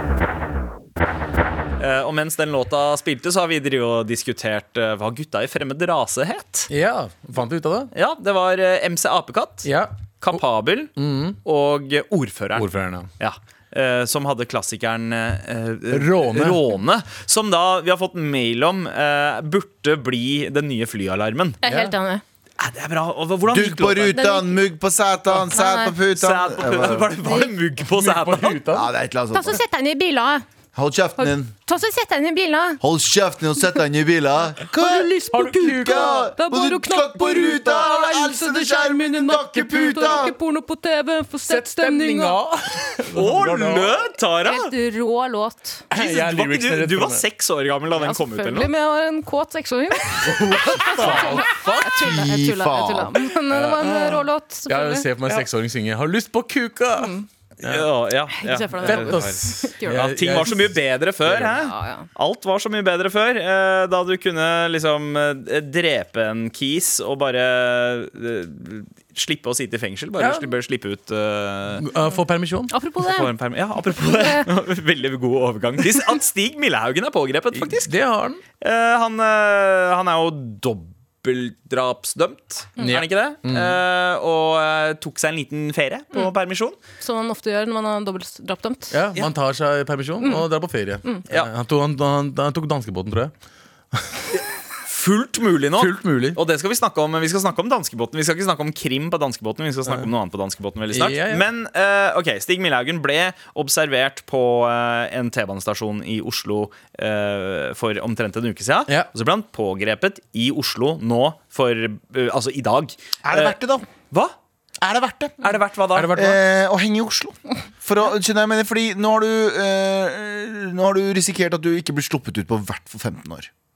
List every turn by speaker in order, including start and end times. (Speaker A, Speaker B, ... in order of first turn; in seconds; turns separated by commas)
Speaker A: 1.8-6.7, Speaker B: 6.7-7.9, Speaker A: 7.9-9.7, Speaker B: 9.6-10.4, Speaker A: 10.2-21.6, Speaker B: 10.9-11.4, Speaker B: 12.5-13.1, Speaker B: 15.9-16.6, Speaker C: 21.6-22.2, Speaker B: 21.6-21.9, Speaker A: 22.6-24.2, Speaker D: 23.5-27.2, Speaker C: 24.1-24.6, Speaker C: 25.5-25.9, Speaker A: 26.1-28.6, Speaker C: 27.2-27.5, Speaker B: 27.8-28.9, Speaker D: 28.7-29.6, Speaker C: 29.3-30.4, Speaker D: 30.7-31.5, Speaker C: 31.2-32.8, Speaker D: 32.8-40.4, Speaker C: 34.7-42.4, Speaker B: 35.3-36.3, Speaker B: 41.5-44.0, Speaker A: 43.1-44.7, Speaker C: 44.4-45.8, Speaker B: 45.9-47.2, Speaker A: 45.9-48.7, Speaker C: 48.0-55.4, Speaker B: 50.2-52.0, Speaker D: 51.9-53.2, Speaker B: 53.5-57.9, Speaker C: 56.9-57.2, Speaker A: 57.6-71.8, Speaker C: 58.4-60.1, Speaker B: 58.8-61.5, Speaker C: 61.5-62.1, Speaker B: 70.2-70.5, Speaker B: 71.8-72.7, Speaker C: 72.7-73.3, Speaker A: 73.1-77.9, Speaker C: 74.0-74.5, Speaker B: 77.5-78.4, Speaker A: 78.6-86.8, Speaker B: 82.8-83.8, Speaker C: 87.0-89.0, Speaker B: 88.9-93.3, Speaker C: 90.2-90.5, Speaker B: 93.9-94.2, Speaker A: 94.3-113.6, Speaker B: 95.8-96.4, Speaker B: 100.9-101.5, Speaker D: 113.2-113.8, Speaker A: 114.1-114.3, Speaker D: 114.8-115.3, Speaker A: 115.4-116.2, Speaker B: 115.9-116.4, Speaker D: 116.1-123.5